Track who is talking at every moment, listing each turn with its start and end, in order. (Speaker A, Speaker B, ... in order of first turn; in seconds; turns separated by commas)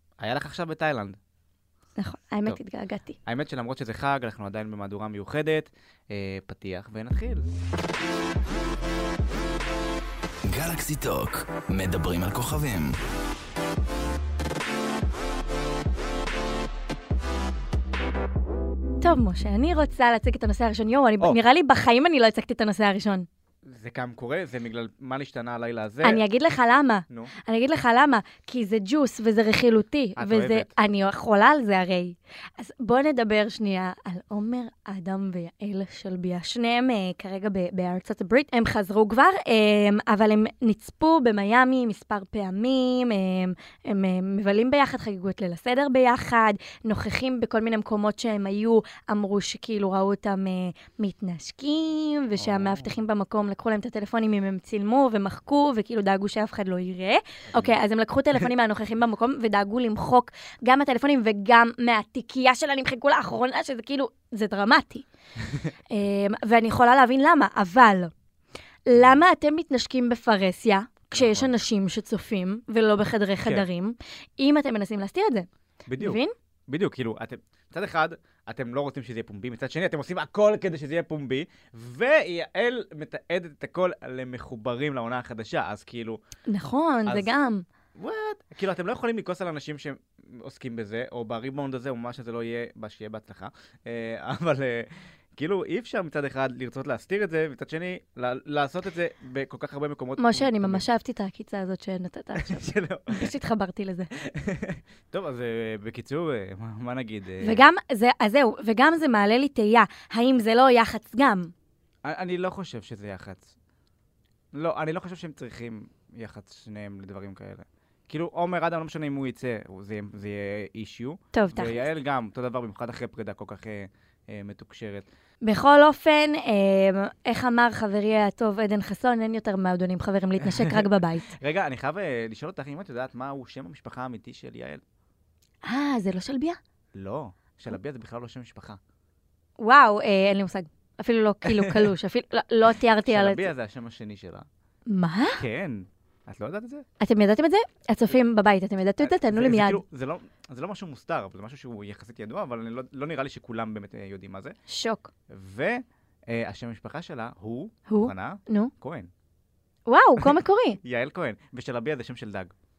Speaker A: 0.2-1.2, Speaker B: 2.0-3.2, Speaker A: 3.2-7.5, Speaker C: 10.4-13.0, Speaker B: 19.0-23.3, Speaker A: 23.7-26.2, Speaker B: 26.0-65.0, Speaker A: 30.2-30.7, Speaker A: 52.4-52.9, Speaker B: 65.9-68.1, Speaker B: 68.9-75.5, Speaker A: 71.2-71.5, Speaker A: 75.9-86.2, Speaker B: 76.0-76.3, Speaker B: 86.5-87.7, Speaker A: 88.0-100.8, Speaker B: 100.2-104.1, Speaker A: 102.4-103.3, Speaker A: 104.3-107.6, Speaker B: 107.4-111.5, Speaker A: 112.0-113.5, Speaker A: 114.5-125.1, Speaker B: 121.3-121.8, Speaker B: 125.4-131.3, Speaker A: 130.5-130.8, Speaker A: 131.4-134.8, Speaker B: 135.6-136.6, Speaker A: 136.9-138.8, Speaker B: 139.6-143.5, Speaker A: 141.5-141.9, Speaker A: 143.1-144.5, Speaker B: 144.9-145.4, Speaker A: 145.4-146.8, Speaker B: 147.0-149.8, Speaker A: 149.0-154.6, Speaker B: 154.7-155.1, Speaker A: 155.3-159.1, Speaker B: 157.9-158.7, Speaker B: 159.9-160.8, Speaker A: 160.2-162.5